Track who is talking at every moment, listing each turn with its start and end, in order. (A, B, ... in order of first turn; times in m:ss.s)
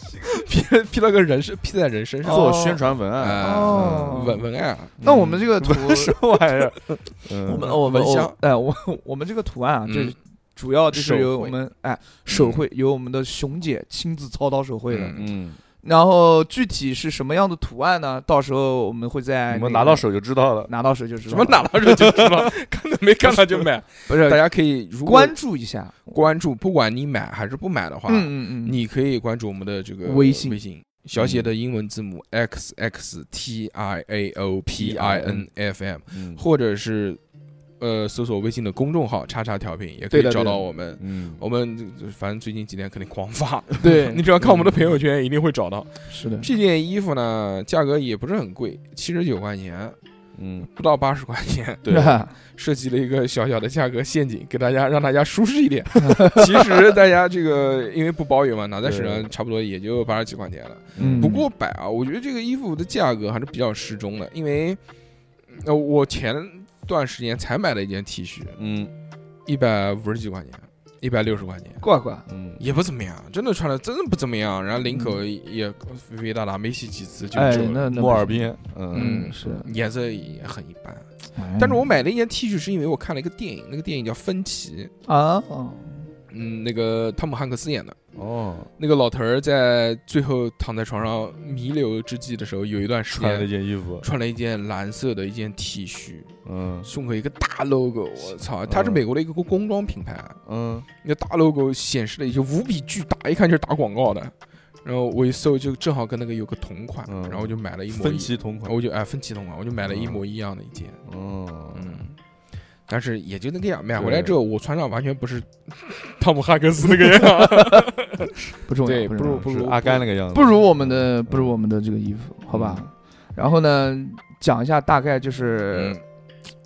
0:00.2-0:02.5 A
0:02.2-0:02.9 B
0:02.2-0:04.2 C
0:03.1-0:05.0 A
0:03.4-0:04.4 B
0:05.0-0:07.8 C
0:05.0-0:06.2 B
0:07.5-0:15.2 B
0:07.5-0:08.4 A
0:09.9-0:10.1 A
0:10.9-0:11.6 A
0:12.3-0:12.6 A
0:14.9-0:15.3 A
0:15.1-0:15.6 C
0:15.8-0:20.0 B
0:19.5-0:20.7 C
0:20.7-0:22.3 B
0:21.3-0:25.4 A
0:23.3-0:24.4 B
0:25.0-0:26.2 B
0:26.1-0:37.2 A
0:28.1-0:28.8 B
0:30.0-0:30.6 B
0:31.2-0:31.5 C
0:34.7-0:35.5 C
0:36.1-0:36.4 C
0:37.8-0:50.0 A
0:40.1-0:40.6 B
0:41.0-0:41.4 C
0:43.8-0:44.2 B
0:44.4-0:44.9 C
0:46.1-0:46.5 B
0:50.4-0:50.7 C
0:50.7-0:51.9 A
0:51.8-0:52.2 C
0:51.9-0:52.3 B
0:52.4-1:04.8 A
0:56.0-0:56.6 B
0:58.8-0:59.3 C
1:01.0-1:01.4 C
1:01.0-1:01.4 B
1:05.6-1:08.6 A
1:08.6-1:08.9 C
1:09.5-1:11.8 A
1:11.8-1:12.2 B
1:12.3-1:12.6 C
1:12.6-1:17.8 A
1:14.9-1:15.2 B
1:17.3-1:19.7 B
1:17.5-1:19.4 C
1:18.9-1:21.1 A
1:21.4-1:21.9 B
1:21.6-1:24.9 A
1:25.1-1:26.1 B
1:26.3-1:28.0 A
1:28.1-1:28.7 C
1:28.8-1:36.3 A
1:33.1-1:34.1 C
1:36.5-1:36.9 C
1:36.8-1:40.4 A
1:38.7-1:39.0 C
1:40.5-1:40.9 C
1:41.0-1:44.3 A
1:44.8-1:51.0 A
1:47.1-1:48.8 C
1:49.9-1:50.2 C
1:51.0-1:52.0 C
1:51.7-1:52.2 A
1:52.9-2:00.0 A
1:54.0-1:54.4 C
1:57.0-1:57.9 B
1:58.6-1:59.6 B
1:59.2-2:01.5 C
2:00.3-2:06.0 B
2:02.5-2:02.8 C
2:05.7-2:06.0 A